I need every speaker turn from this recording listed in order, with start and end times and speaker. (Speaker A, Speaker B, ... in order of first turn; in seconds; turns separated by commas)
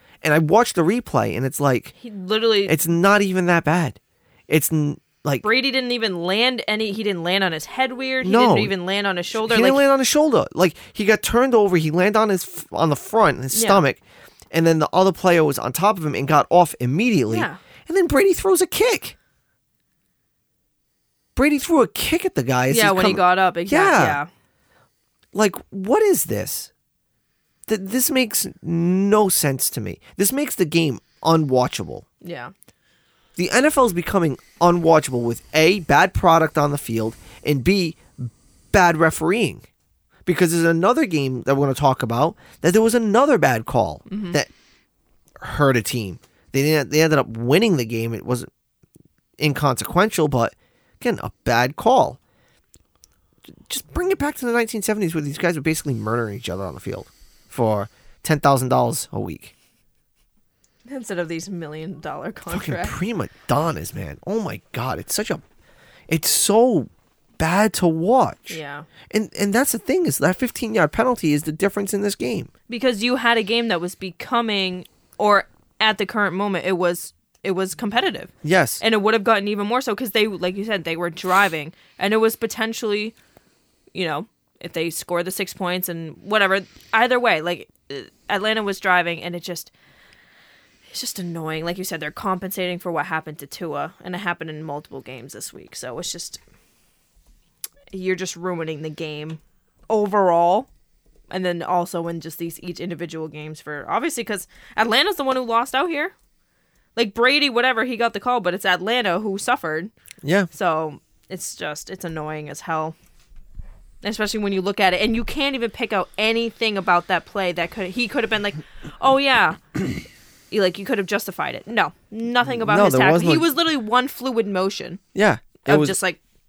Speaker A: 0.2-1.9, Speaker B: 2.0-2.8, Speaker A: 2.7-5.5, Speaker B: 5.4-9.8, Speaker A: 8.2-8.7, Speaker A: 9.3-19.1, Speaker B: 13.5-13.8, Speaker B: 17.3-17.6, Speaker A: 21.4-24.2, Speaker B: 22.7-24.3, Speaker A: 25.3-26.7, Speaker A: 27.7-32.0, Speaker B: 32.2-32.5, Speaker A: 33.4-39.6, Speaker A: 40.3-44.5, Speaker B: 44.1-44.4, Speaker A: 45.4-48.5, Speaker A: 49.4-52.2, Speaker A: 53.7-59.5, Speaker B: 60.9-63.0, Speaker A: 62.5-65.4, Speaker A: 66.1-68.6, Speaker B: 68.5-68.9, Speaker A: 69.1-72.5, Speaker B: 72.7-83.1, Speaker A: 78.4-78.8, Speaker B: 83.9-89.7, Speaker B: 90.9-96.4, Speaker B: 97.9-100.7, Speaker B: 101.3-106.1, Speaker B: 107.0-109.9, Speaker A: 110.2-110.5, Speaker B: 110.5-113.0, Speaker B: 114.0-119.8, Speaker B: 120.5-125.0, Speaker A: 122.5-123.5, Speaker A: 125.1-126.0, Speaker B: 125.7-126.2